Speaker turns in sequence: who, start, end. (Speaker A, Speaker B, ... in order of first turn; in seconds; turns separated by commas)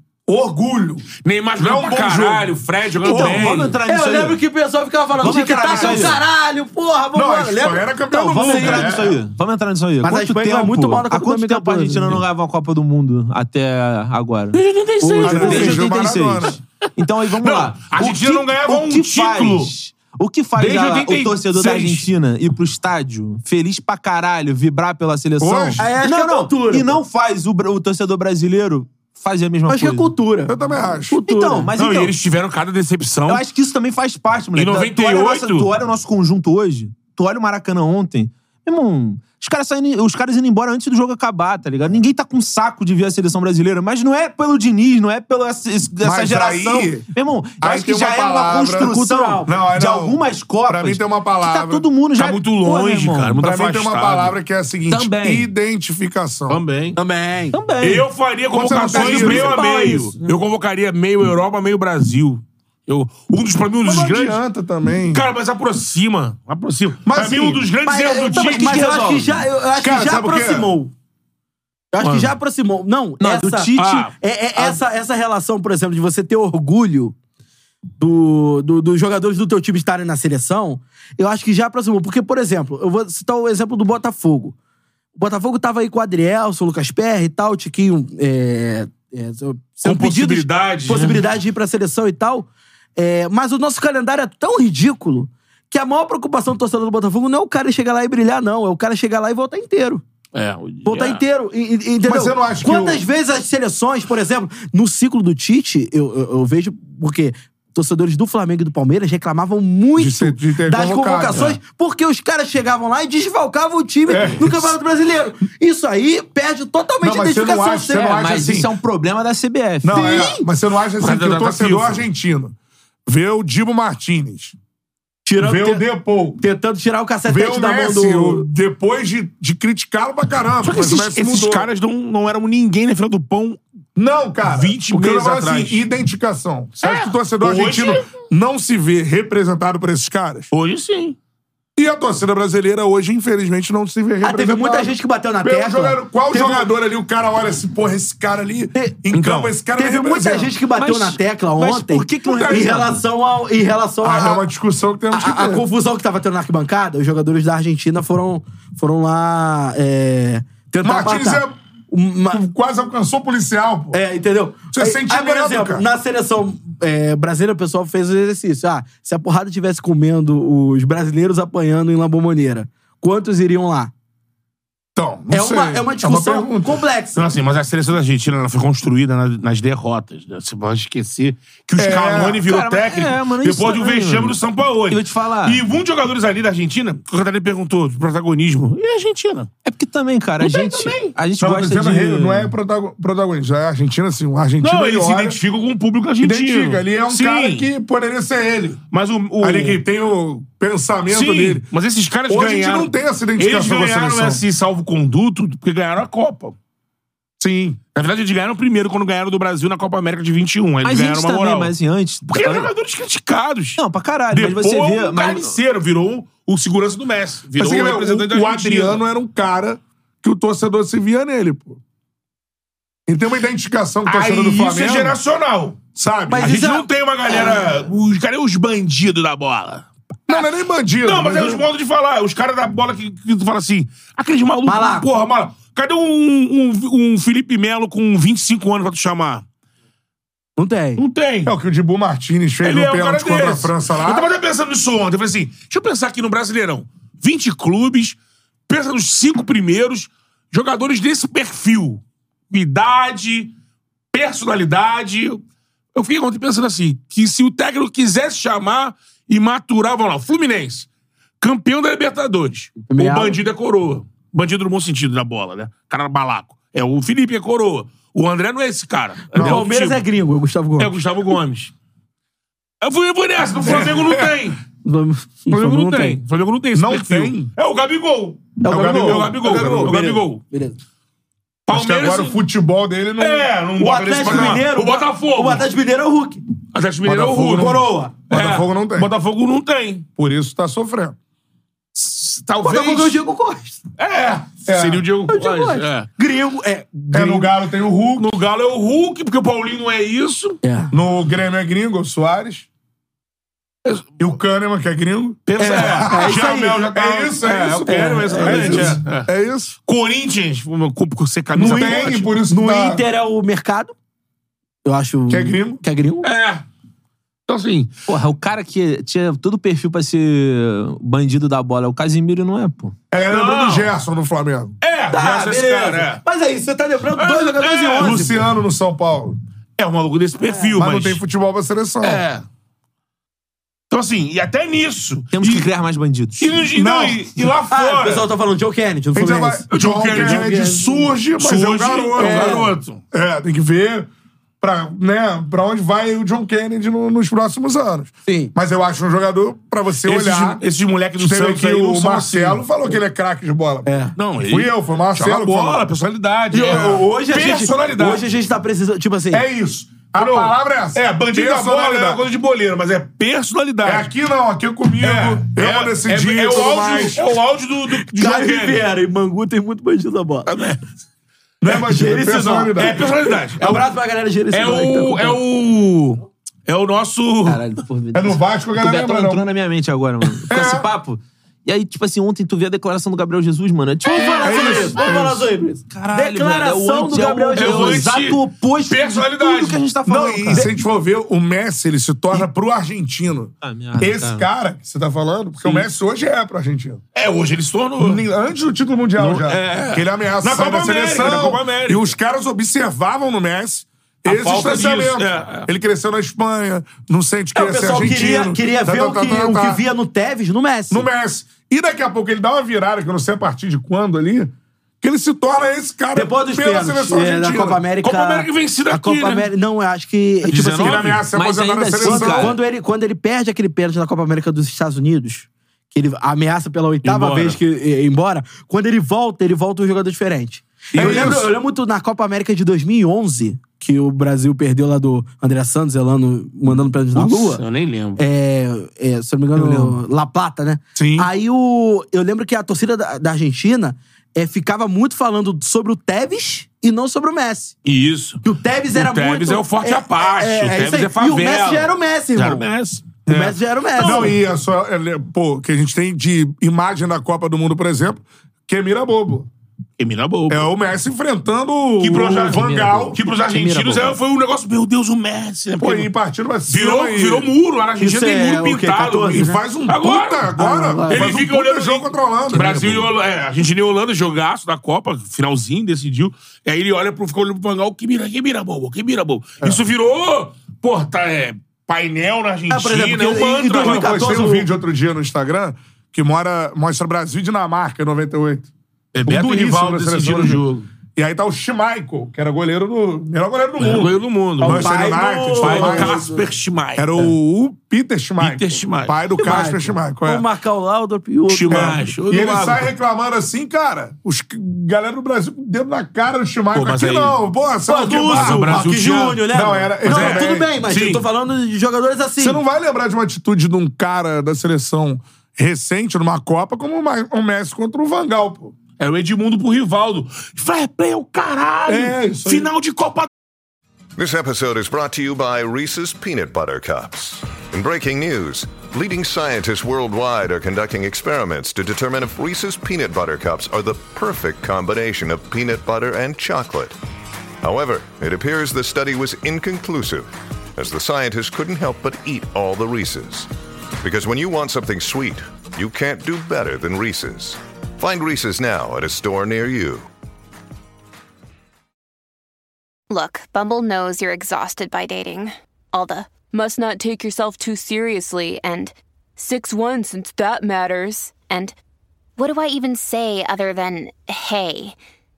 Speaker A: 0.2-3.7, Speaker B: 1.2-3.8, Speaker C: 3.0-4.4, Speaker D: 3.8-9.0, Speaker C: 5.2-6.2, Speaker A: 5.9-6.1, Speaker A: 7.1-9.2, Speaker C: 8.1-14.6, Speaker D: 10.0-12.2, Speaker B: 14.5-15.9, Speaker D: 15.0-15.8, Speaker C: 15.2-30.1, Speaker A: 15.2-16.6, Speaker B: 17.2-19.7, Speaker B: 20.6-22.1, Speaker A: 25.4-25.8, Speaker D: 25.8-27.0, Speaker D: 29.7-30.6, Speaker A: 30.5-31.2, Speaker D: 31.1-31.7, Speaker C: 31.2-32.1, Speaker B: 31.8-33.4, Speaker C: 33.3-53.4, Speaker B: 34.5-35.7, Speaker A: 46.0-47.1, Speaker A: 47.6-48.9, Speaker D: 48.8-49.5, Speaker A: 49.5-51.9, Speaker B: 52.2-54.3, Speaker A: 53.4-56.6, Speaker C: 54.9-55.5, Speaker B: 56.5-57.0, Speaker D: 57.0-57.6, Speaker C: 57.5-58.1, Speaker B: 57.8-64.4, Speaker A: 58.5-59.7, Speaker D: 58.9-60.3, Speaker A: 63.8-65.2, Speaker B: 65.1-68.9, Speaker A: 67.0-67.7, Speaker D: 67.8-70.9, Speaker C: 68.3-69.4, Speaker A: 69.8-70.7, Speaker D: 71.9-77.1, Speaker B: 72.0-72.3, Speaker C: 73.2-74.1, Speaker B: 73.7-74.1, Speaker D: 78.0-84.5, Speaker D: 85.2-100.0, Speaker B: 89.8-91.2, Speaker B: 100.3-101.2, Speaker D: 100.8-118.2, Speaker A: 102.0-103.0, Speaker A: 110.0-111.5, Speaker A: 114.1-114.7, Speaker A: 117.0-118.7, Speaker C: 118.0-120.3, Speaker A: 119.8-122.5, Speaker D: 119.9-120.4, Speaker B: 121.0-122.0, Speaker A: 123.1-124.5, Speaker D: 125.2-128.5, Speaker A: 125.4-126.4, Speaker A: 127.3-131.7, Speaker B: 130.6-133.6, Speaker A: 133.9-140.5, Speaker B: 134.5-135.8, Speaker B: 136.8-138.1, Speaker B: 140.5-141.2, Speaker A: 141.8-150.5, Speaker D: 144.2-146.7, Speaker B: 149.1-149.5, Speaker D: 149.7-154.5, Speaker C: 150.8-153.0, Speaker A: 154.0-155.7, Speaker D: 155.1-162.4, Speaker A: 160.8-161.5, Speaker A: 162.3-164.0, Speaker D: 163.9-173.9, Speaker A: 164.7-165.8, Speaker A: 174.9-176.8, Speaker D: 175.3-177.2, Speaker B: 177.1-189.5, Speaker A: 181.8-182.4, Speaker C: 182.4-184.4, Speaker C: 184.9-185.6, Speaker C: 189.6-192.5, Speaker B: 190.4-191.1, Speaker A: 191.4-195.4, Speaker B: 194.6-197.7, Speaker A: 196.2-198.8, Speaker B: 198.9-199.8, Speaker A: 199.4-201.7, Speaker B: 201.1-206.5, Speaker A: 202.3-204.4, Speaker A: 207.4-207.8, Speaker B: 207.9-211.7, Speaker C: 210.8-212.7, Speaker B: 212.3-213.8, Speaker C: 213.8-215.6, Speaker B: 214.3-219.0, Speaker A: 217.6-221.8, Speaker A: 223.1-225.2, Speaker B: 224.1-225.8, Speaker A: 225.9-226.5, Speaker D: 226.3-227.7, Speaker B: 226.4-230.5, Speaker A: 230.3-231.6, Speaker B: 231.0-239.4, Speaker D: 234.7-235.1, Speaker D: 240.6-241.0, Speaker B: 241.0-241.5, Speaker A: 241.4-244.3, Speaker B: 242.6-253.5, Speaker B: 254.1-255.4, Speaker B: 255.9-260.9, Speaker B: 261.4-270.0, Speaker D: 262.8-263.4, Speaker A: 269.3-269.6, Speaker D: 269.3-270.9, Speaker B: 270.8-271.7, Speaker B: 272.8-274.6, Speaker A: 273.6-274.5, Speaker D: 274.8-276.2, Speaker B: 275.5-280.4, Speaker A: 276.7-277.5, Speaker D: 278.6-280.8, Speaker A: 278.7-280.0, Speaker B: 281.7-282.4, Speaker A: 281.7-283.5, Speaker B: 283.2-285.6, Speaker D: 283.8-286.4, Speaker A: 284.2-284.6, Speaker B: 286.7-290.1, Speaker A: 287.0-289.1, Speaker D: 287.5-288.1, Speaker A: 290.2-291.2, Speaker B: 291.9-293.2, Speaker D: 292.6-293.8, Speaker B: 294.0-296.1, Speaker A: 294.6-295.0, Speaker D: 295.3-297.4, Speaker A: 297.1-298.3, Speaker B: 298.2-300.6, Speaker D: 300.6-300.9, Speaker A: 300.9-302.7, Speaker B: 303.8-304.2, Speaker A: 304.2-309.7, Speaker B: 305.4-309.3, Speaker D: 305.6-306.9, Speaker D: 307.8-309.0, Speaker B: 309.9-312.3, Speaker A: 311.5-313.0, Speaker D: 311.6-313.9, Speaker D: 314.8-316.3, Speaker A: 315.3-315.8, Speaker B: 316.2-316.6, Speaker B: 317.5-317.9, Speaker C: 318.1-322.9, Speaker A: 323.1-324.7, Speaker B: 323.3-323.9, Speaker B: 324.8-326.2, Speaker D: 325.1-328.4, Speaker B: 327.1-328.4, Speaker A: 328.0-329.4, Speaker B: 329.8-331.2, Speaker A: 330.7-332.2, Speaker B: 332.0-332.4, Speaker B: 333.9-335.7, Speaker C: 335.3-336.6, Speaker B: 336.4-338.3, Speaker A: 336.7-337.2, Speaker D: 337.7-341.1, Speaker A: 339.1-344.1, Speaker B: 339.7-340.7, Speaker B: 341.4-343.0, Speaker D: 342.2-342.7, Speaker A: 344.6-350.6, Speaker D: 348.2-348.5, Speaker B: 350.0-352.6, Speaker A: 351.2-353.9, Speaker D: 353.8-354.1, Speaker B: 354.2-358.2, Speaker A: 354.4-355.8, Speaker D: 356.5-359.4, Speaker A: 356.7-357.0, Speaker A: 359.3-362.2, Speaker B: 360.1-364.1, Speaker A: 363.8-367.2, Speaker B: 365.0-368.8, Speaker D: 368.1-370.5, Speaker B: 370.4-370.8, Speaker A: 371.6-373.0, Speaker D: 371.7-375.4, Speaker B: 372.8-373.9, Speaker B: 374.5-377.6, Speaker C: 377.5-385.2, Speaker D: 377.7-378.1, Speaker A: 378.1-379.4, Speaker A: 380.4-380.9, Speaker D: 384.1-388.1, Speaker A: 384.4-385.4, Speaker C: 385.9-390.7, Speaker B: 387.5-389.8, Speaker A: 390.0-397.0, Speaker C: 393.6-394.4, Speaker B: 397.1-398.2, Speaker A: 398.0-409.8, Speaker B: 399.2-402.1, Speaker B: 404.2-405.7, Speaker D: 407.5-411.1, Speaker A: 410.9-417.8, Speaker D: 416.1-421.0, Speaker B: 418.0-419.5, Speaker B: 420.4-421.2, Speaker A: 420.7-422.5, Speaker C: 421.3-422.6, Speaker D: 422.0-437.6, Speaker B: 427.0-427.6, Speaker A: 430.9-431.5, Speaker B: 430.9-431.3, Speaker B: 437.1-438.2, Speaker D: 438.2-447.7, Speaker A: 440.9-441.3, Speaker B: 447.8-448.4, Speaker D: 448.4-452.7, Speaker B: 448.9-454.3, Speaker D: 453.2-454.3, Speaker A: 453.9-459.5, Speaker B: 460.0-460.7, Speaker A: 460.5-463.2, Speaker B: 462.0-466.1, Speaker D: 463.1-464.2, Speaker A: 465.8-467.5, Speaker B: 466.7-484.2, Speaker D: 468.0-469.6, Speaker A: 469.2-472.9, Speaker D: 470.6-471.3, Speaker D: 472.5-473.0, Speaker D: 482.7-484.7, Speaker A: 483.7-488.7, Speaker B: 489.1-490.9, Speaker A: 489.2-490.6, Speaker A: 491.1-496.2, Speaker B: 493.8-497.3, Speaker D: 494.6-496.4, Speaker A: 497.0-500.4, Speaker B: 498.4-499.2, Speaker D: 499.4-502.0, Speaker B: 501.5-502.9, Speaker A: 501.7-508.9, Speaker B: 506.7-507.4, Speaker D: 507.9-512.6, Speaker B: 508.1-509.5, Speaker A: 509.5-510.7, Speaker B: 510.0-511.2, Speaker A: 512.4-518.7, Speaker B: 519.0-523.3, Speaker A: 521.9-522.7, Speaker E: 524.2-536.9, Speaker E: 537.6-543.5, Speaker E: 544.0-550.0, Speaker F: 553.1-561.7, Speaker F: 562.4-565.0